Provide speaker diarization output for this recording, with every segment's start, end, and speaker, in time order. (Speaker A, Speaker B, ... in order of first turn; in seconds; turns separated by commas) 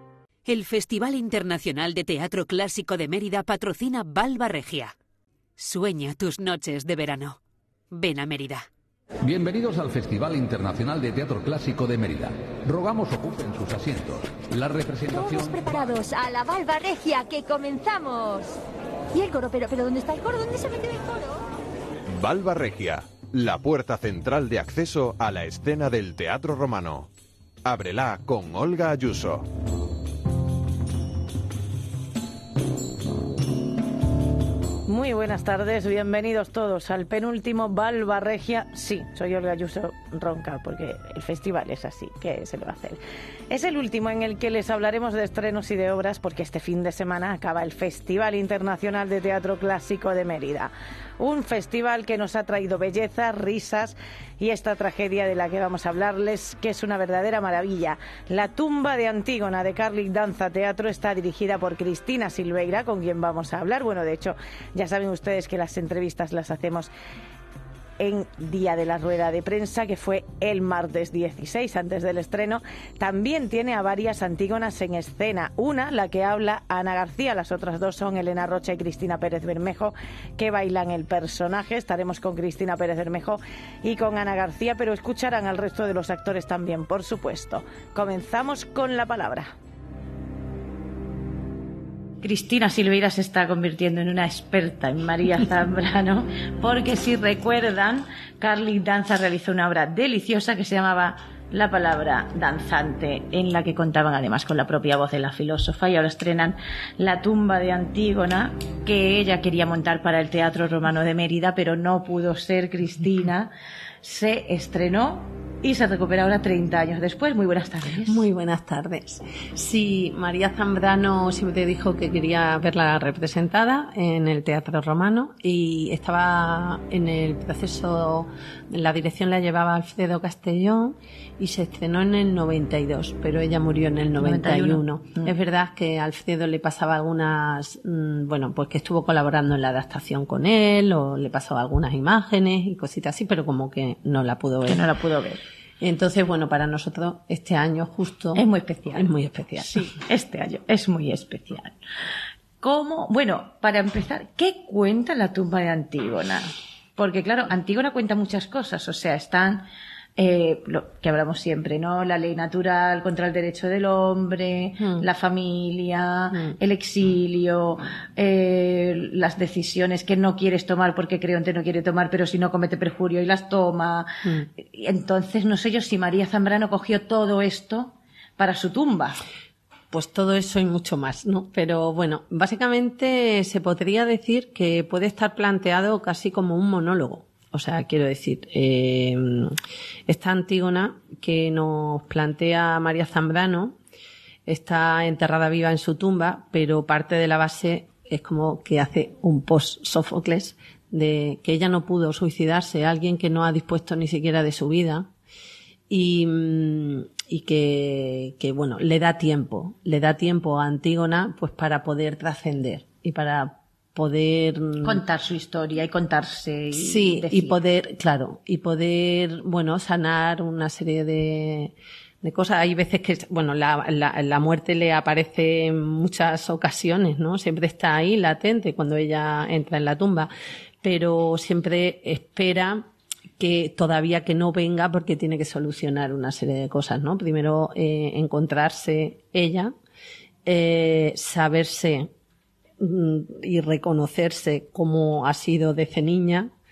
Speaker A: 0.5-4.9, Speaker A: 5.6-7.4, Speaker A: 7.9-8.6, Speaker B: 9.2-15.8, Speaker C: 15.1-18.6, Speaker C: 19.1-21.4, Speaker D: 22.1-27.1, Speaker D: 27.6-29.4, Speaker E: 34.9-66.9, Speaker E: 68.0-89.5, Speaker E: 92.2-118.2, Speaker F: 118.0-144.9, Speaker E: 134.2-135.3, Speaker E: 144.6-145.4, Speaker F: 145.8-149.8, Speaker E: 148.3-149.1, Speaker E: 149.6-151.8, Speaker E: 152.6-179.2, Speaker F: 164.8-165.1, Speaker F: 179.9-189.6, Speaker F: 190.1-193.8, Speaker F: 194.5-205.1, Speaker F: 205.9-215.0, Speaker E: 214.8-217.6, Speaker F: 216.7-230.3, Speaker F: 230.8-232.8, Speaker F: 233.4-239.7, Speaker F: 240.4-242.1, Speaker F: 242.8-246.5